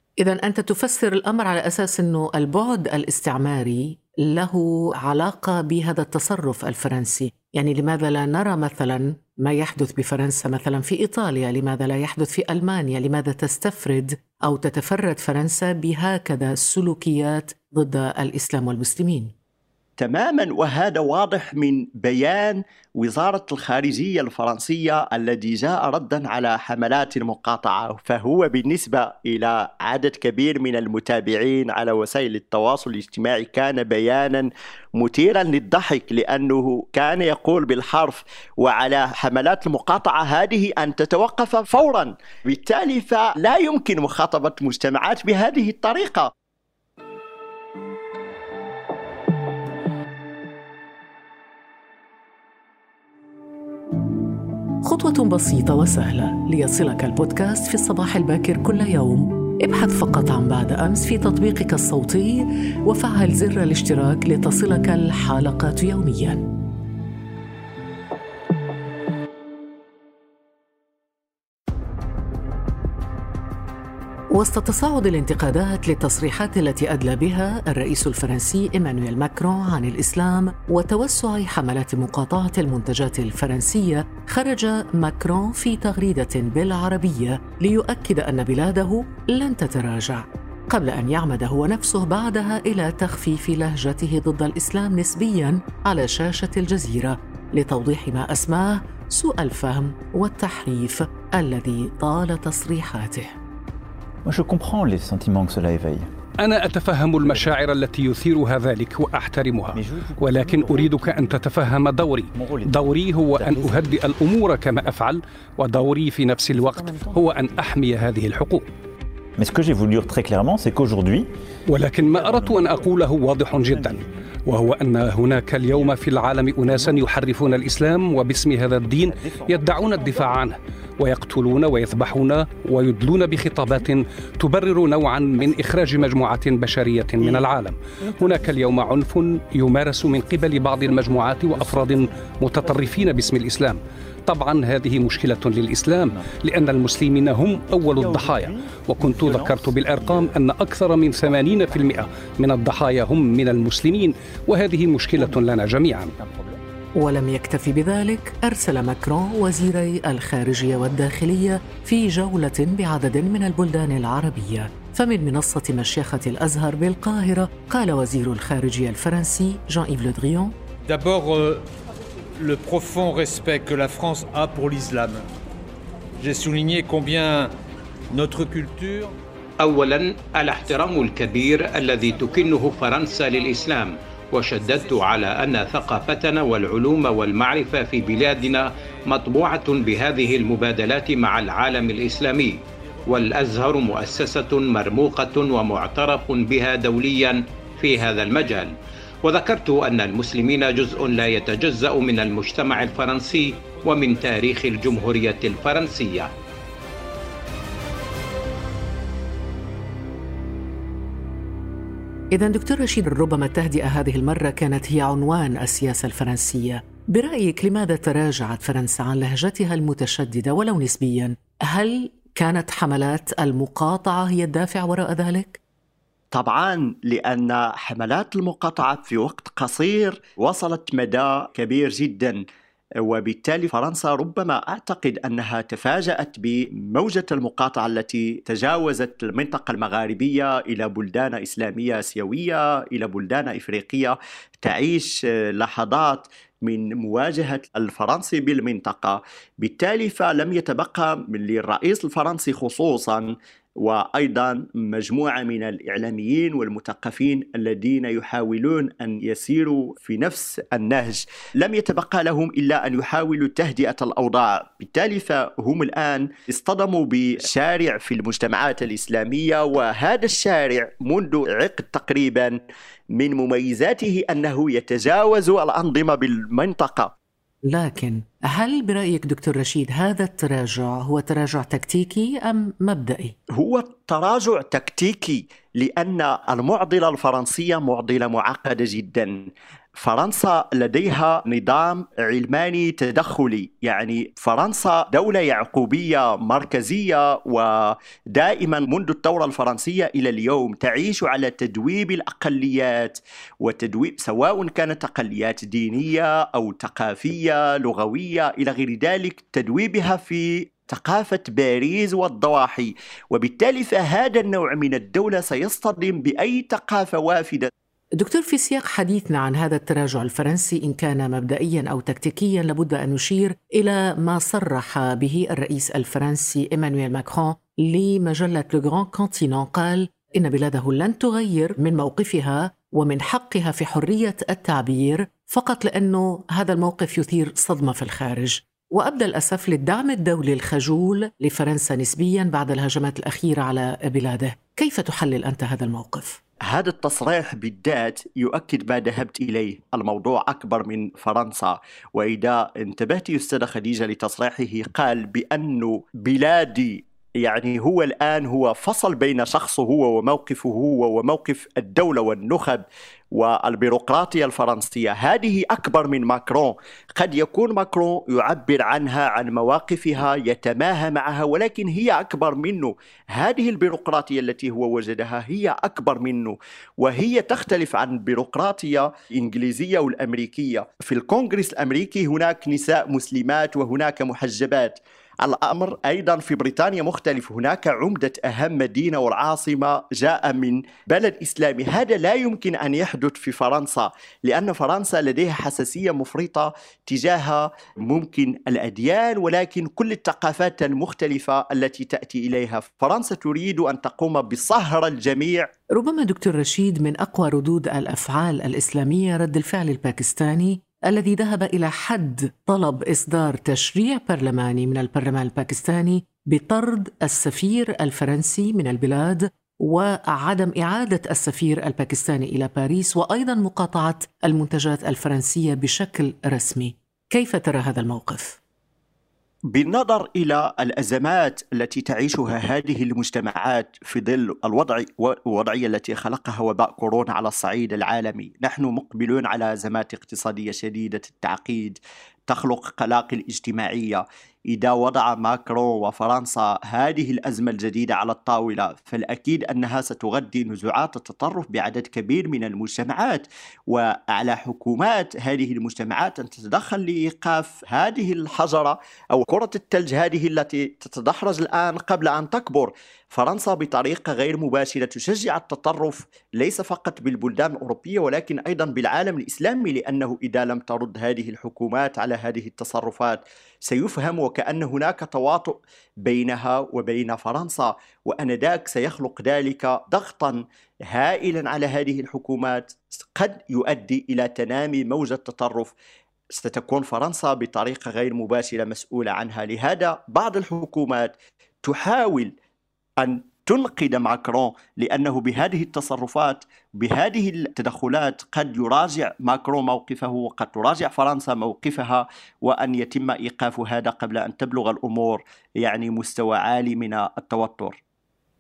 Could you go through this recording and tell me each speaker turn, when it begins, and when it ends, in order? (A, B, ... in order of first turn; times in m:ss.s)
0:00.2-0:19.3 A
0:20.0-0:46.3 B
0:54.8-1:06.4 A
1:14.3-1:43.4 A
1:44.2-1:46.1 C
1:46.4-1:58.7 D
1:47.2-1:47.6 C
1:49.7-1:51.6 C
1:52.3-1:54.1 C
1:56.5-1:57.3 C
1:59.4-2:01.3 C
2:01.7-2:36.1 D
2:02.1-2:04.3 C
2:05.3-2:06.0 C
2:06.6-2:07.1 C
2:09.0-2:10.4 C
2:18.0-2:18.6 C
2:20.3-2:23.4 C
2:27.6-2:30.4 C
2:31.2-2:32.1 C
2:35.2-2:35.6 C
2:36.2-2:36.6 C
2:37.0-2:50.6 A
2:50.8-2:51.6 E
2:52.4-2:55.3 E
2:56.2-2:57.5 E
2:58.1-2:59.2 E
2:59.6-3:26.3 F
3:32.3-3:45.6 A
3:46.3-3:52.4 B
3:53.0-4:32.6 B
4:33.1-4:37.1 B
4:37.6-4:43.4 A
4:43.5-5:17.7 B
5:18.2-5:46.4 A
5:46.7-6:45.7 B
6:45.9-7:08.6 A
7:09.7-8:05.9 B
8:06.5-8:12.5 B
8:13.2-8:28.0 B